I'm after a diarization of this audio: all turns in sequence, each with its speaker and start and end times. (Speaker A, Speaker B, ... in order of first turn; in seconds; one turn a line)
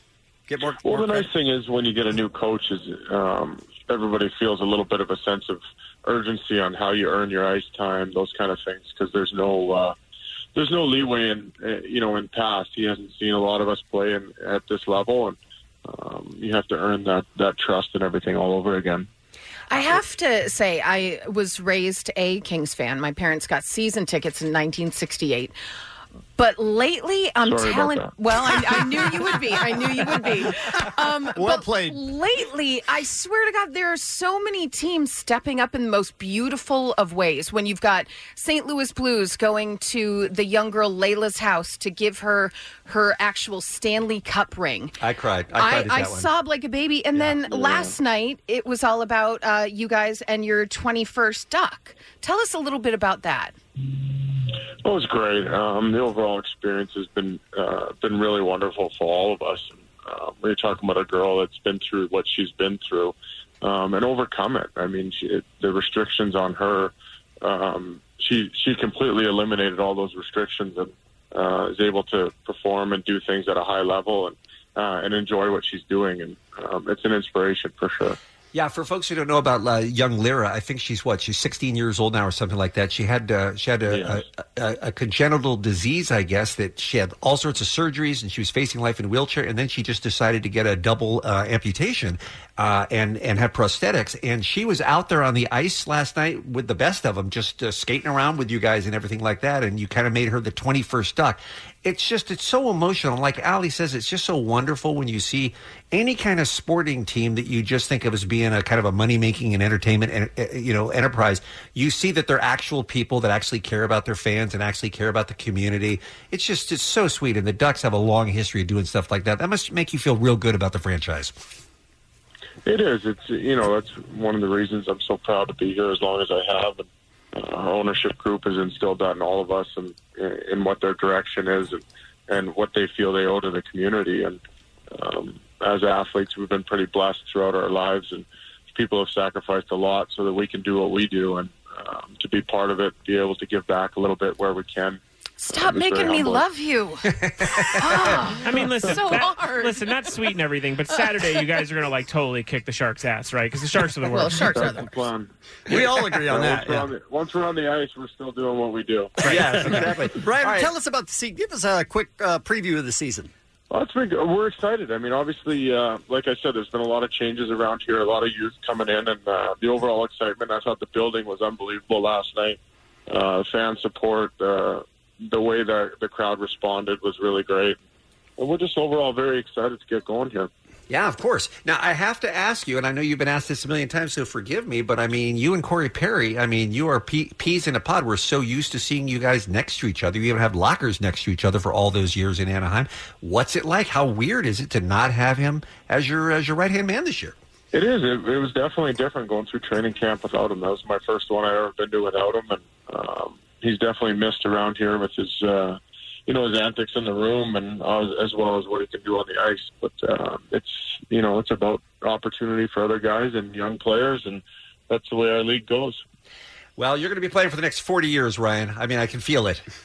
Speaker A: 0.5-1.3
Speaker B: 0.8-9.9
Speaker B: 10.6-19.1
Speaker C: 19.7-25.5
Speaker C: 26.4-45.0
Speaker B: 27.4-28.2
Speaker A: 31.3-32.0
Speaker D: 45.0-46.3
Speaker C: 45.6-53.5
Speaker B: 47.2-47.9
Speaker B: 54.8-78.2
Speaker D: 78.5-121.4
Speaker B: 83.9-84.2
Speaker B: 122.7-134.4
Speaker B: 134.9-145.0
Speaker C: 145.4-149.9
Speaker B: 145.5-146.4
Speaker D: 147.1-148.2
Speaker E: 148.4-154.7
Speaker C: 150.9-151.4
Speaker C: 154.1-154.9
Speaker B: 154.4-159.2
Speaker A: 155.7-156.9
Speaker D: 159.2-160.7
Speaker A: 159.3-163.3
Speaker B: 163.7-177.8
Speaker B: 178.4-180.5
Speaker D: 180.9-197.4
Speaker B: 197.7-216.0
Speaker D: 216.8-219.7